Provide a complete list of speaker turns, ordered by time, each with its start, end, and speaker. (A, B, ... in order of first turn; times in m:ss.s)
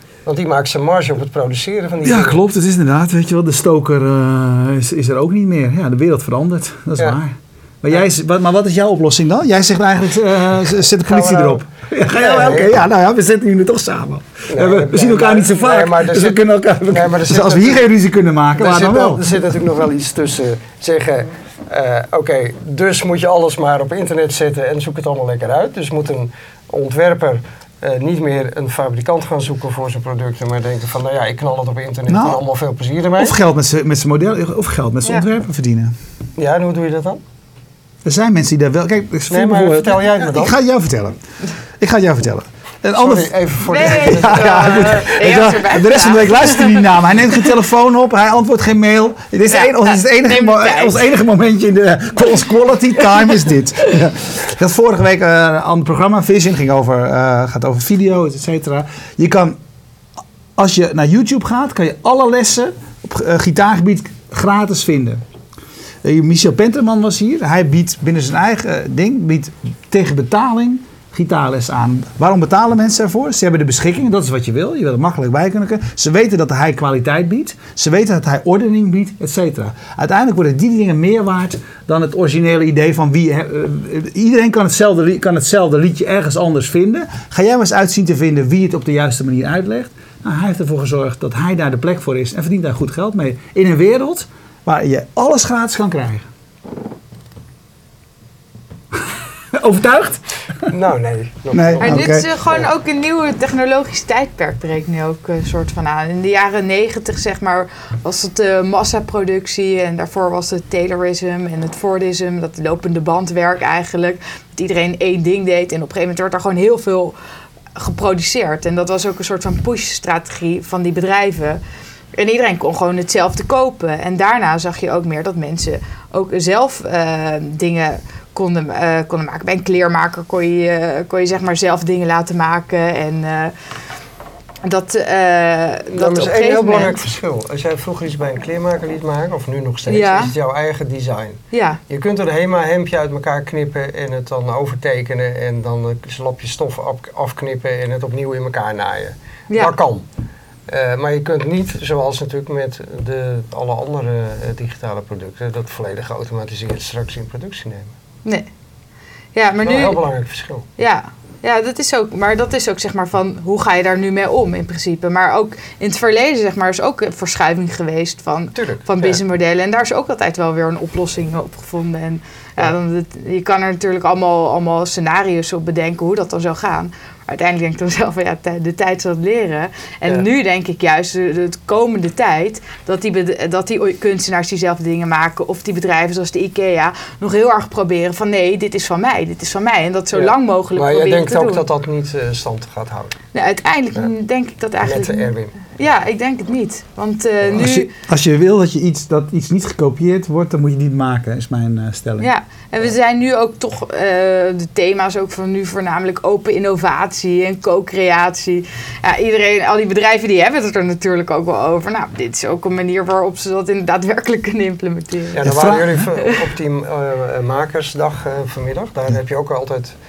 0:00.2-0:02.4 A
0:02.0-0:19.3 B
0:11.0-0:12.7 A
0:14.5-0:17.8 A
0:18.6-0:33.4 A
0:32.1-0:32.4 B
0:33.2-0:35.9 B
0:36.4-0:37.2 A
0:38.0-0:41.2 B
0:39.3-0:40.5 A
0:41.8-0:59.6 B
0:43.0-0:45.4 A
0:43.7-0:46.9 C
0:49.5-0:51.0 C
1:00.6-1:05.2 B
1:06.0-1:36.3 B
1:38.9-1:40.2 B
1:40.7-1:42.7 A
1:41.5-1:42.3 B
1:41.8-1:57.1 C
1:57.8-2:01.6 C
2:02.2-2:13.5 C
2:14.6-2:17.0 C
2:15.9-2:30.0 A
2:19.9-2:20.3 C
2:21.5-2:21.8 C
2:30.7-2:37.9 A
2:39.3-2:40.0 C
2:39.6-2:40.7 A
2:40.8-3:11.6 C
2:48.5-2:49.2 A
3:10.1-3:13.2 A
3:13.3-3:17.9 C
3:14.8-3:15.8 A
3:17.5-3:22.3 B
3:22.2-3:35.5 C
3:35.3-3:39.9 A
3:35.4-3:36.0 B